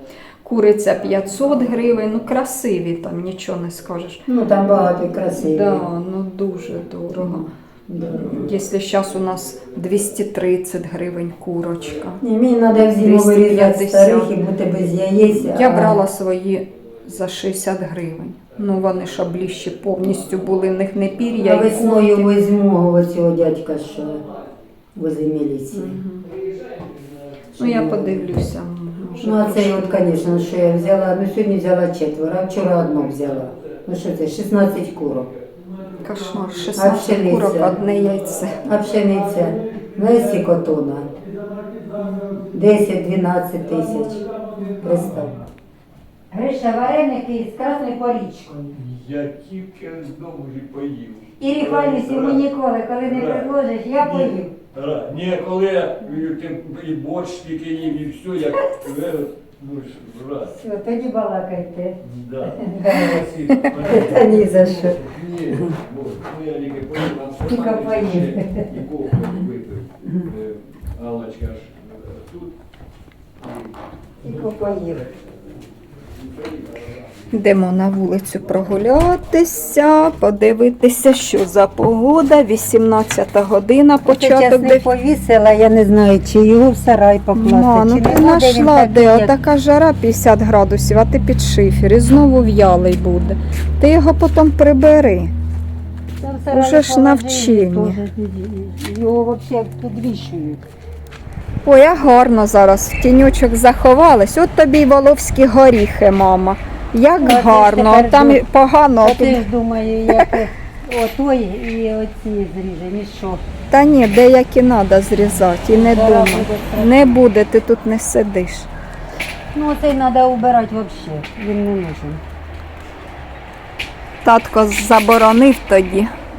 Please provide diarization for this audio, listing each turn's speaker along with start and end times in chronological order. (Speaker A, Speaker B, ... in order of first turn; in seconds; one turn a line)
Speaker A: 0.4-4.2
Speaker B: 4.3-5.8
Speaker A: 5.4-7.5
Speaker B: 7.1-8.5
Speaker A: 8.1-12.2
Speaker B: 12.2-16.0
Speaker A: 12.9-14.3
Speaker A: 15.3-22.3
Speaker B: 21.4-24.2
Speaker B: 24.9-26.0
Speaker A: 25.7-26.3
Speaker B: 27.5-28.3
Speaker A: 27.6-30.0
Speaker B: 29.2-35.3
Speaker A: 36.0-38.6
Speaker B: 36.7-37.8
Speaker B: 38.6-41.1
Speaker A: 42.0-42.4
Speaker B: 42.5-44.2
Speaker B: 44.8-45.4
Speaker B: 46.3-48.9
Speaker C: 48.9-52.5
Speaker B: 51.4-54.5
Speaker C: 53.0-60.5
Speaker B: 60.5-65.8
Speaker C: 62.0-72.5
Speaker B: 67.5-68.8
Speaker B: 74.2-75.0
Speaker C: 76.2-76.8
Speaker A: 77.3-84.9
Speaker B: 84.0-89.3
Speaker A: 87.3-95.3
Speaker B: 96.2-100.7
Speaker A: 96.5-98.0
Speaker A: 101.6-109.4
Speaker B: 107.2-108.4
Speaker B: 109.0-113.4
Speaker A: 113.7-118.7
Speaker B: 115.7-117.2
Speaker B: 119.5-122.2
Speaker A: 124.2-126.1